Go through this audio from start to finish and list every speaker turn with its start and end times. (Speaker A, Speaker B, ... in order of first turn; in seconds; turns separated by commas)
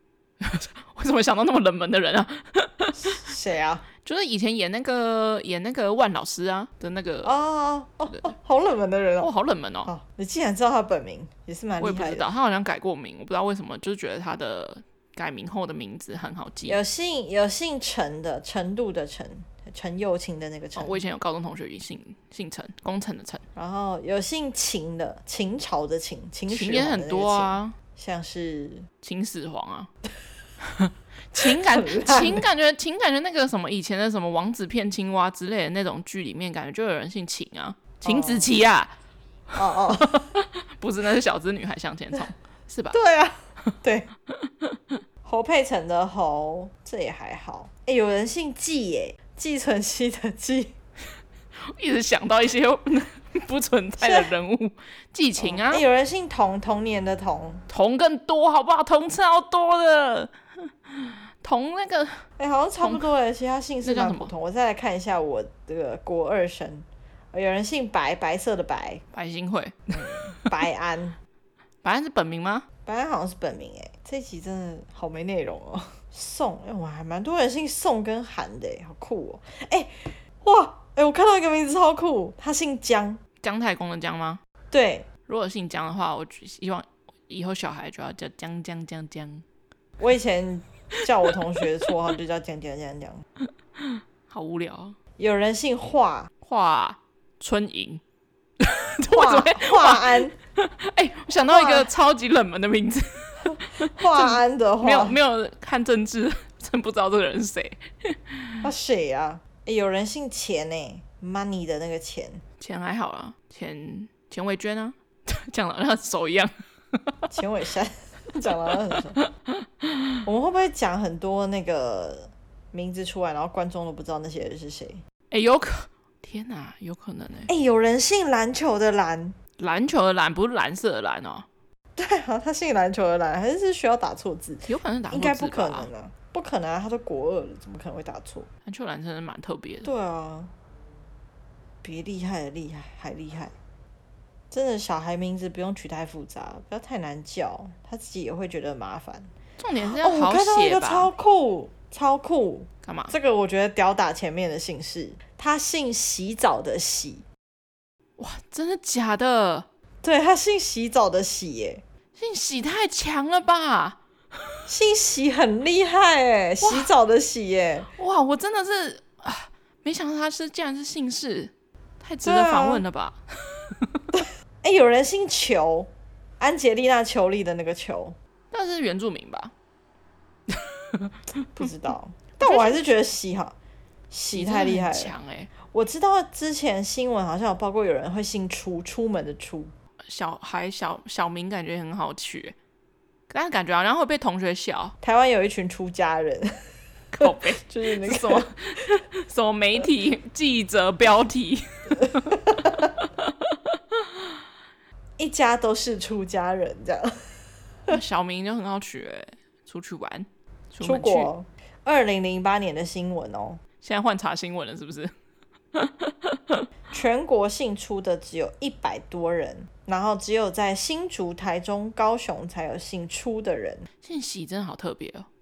Speaker A: 0.4-3.0, Speaker B: 3.0-3.9, Speaker A: 4.0-7.3, Speaker B: 7.2-9.3, Speaker A: 9.2-9.9, Speaker B: 9.9-12.3, Speaker A: 11.8-16.8, Speaker B: 16.7-21.0, Speaker A: 20.8-23.4, Speaker B: 23.6-28.9, Speaker A: 26.5-27.8, Speaker A: 29.0-29.9, Speaker A: 30.6-38.9, Speaker B: 31.4-32.5, Speaker B: 38.0-38.5, Speaker B: 39.6-40.3, Speaker A: 40.2-43.0, Speaker B: 42.9-44.1, Speaker A: 44.3-45.0, Speaker B: 45.2-50.7, Speaker A: 51.6-55.9, Speaker B: 54.0-54.3, Speaker B: 55.4-57.6, Speaker A: 57.7-62.2, Speaker B: 62.4-69.0, Speaker A: 62.8-63.1, Speaker A: 63.8-64.3, Speaker A: 69.1-70.2, Speaker B: 69.9-71.2, Speaker A: 71.8-72.7, Speaker B: 72.9-83.2, Speaker A: 83.4-84.4, Speaker B: 84.7-85.1, Speaker A: 85.3-89.4, Speaker B: 90.0-93.2, Speaker A: 93.8-95.0, Speaker B: 95.2-96.3, Speaker A: 96.4-98.0, Speaker A: 98.6-108.6, Speaker B: 99.1-100.3, Speaker B: 101.5-101.9, Speaker B: 103.8-105.2, Speaker B: 108.6-112.4, Speaker A: 112.6-117.2, Speaker B: 117.3-119.2, Speaker A: 119.2-120.1, Speaker B: 120.2-125.0, Speaker A: 125.3-127.5, Speaker B: 127.5-129.4, Speaker A: 129.6-131.5, Speaker B: 132.0-138.5, Speaker A: 134.7-135.9, Speaker A: 138.7-139.9, Speaker B: 139.8-140.5, Speaker B: 141.8-143.5, Speaker B: 144.5-157.2, Speaker A: 149.6-151.1, Speaker A: 152.8-153.1, Speaker A: 158.2-159.7, Speaker B: 160.0-161.8, Speaker A: 162.2-164.0, Speaker B: 164.7-167.9, Speaker A: 166.6-166.9, Speaker A: 168.0-174.0, Speaker B: 172.2-172.8, Speaker B: 174.1-178.2, Speaker A: 178.5-179.5, Speaker A: 180.5-181.7, Speaker B: 181.6-183.6, Speaker A: 182.4-182.8, Speaker B: 184.1-185.1, Speaker A: 184.3-185.5, Speaker B: 185.7-189.7, Speaker A: 190.1-192.6, Speaker A: 193.3-194.9, Speaker B: 195.0-196.5, Speaker A: 197.1-204.3, Speaker B: 197.2-198.5, Speaker B: 202.0-202.9, Speaker B: 205.2-207.2, Speaker A: 207.9-211.3, Speaker B: 210.8-213.6, Speaker A: 213.8-215.1, Speaker A: 215.7-216.7, Speaker B: 216.9-223.9, Speaker A: 224.0-225.3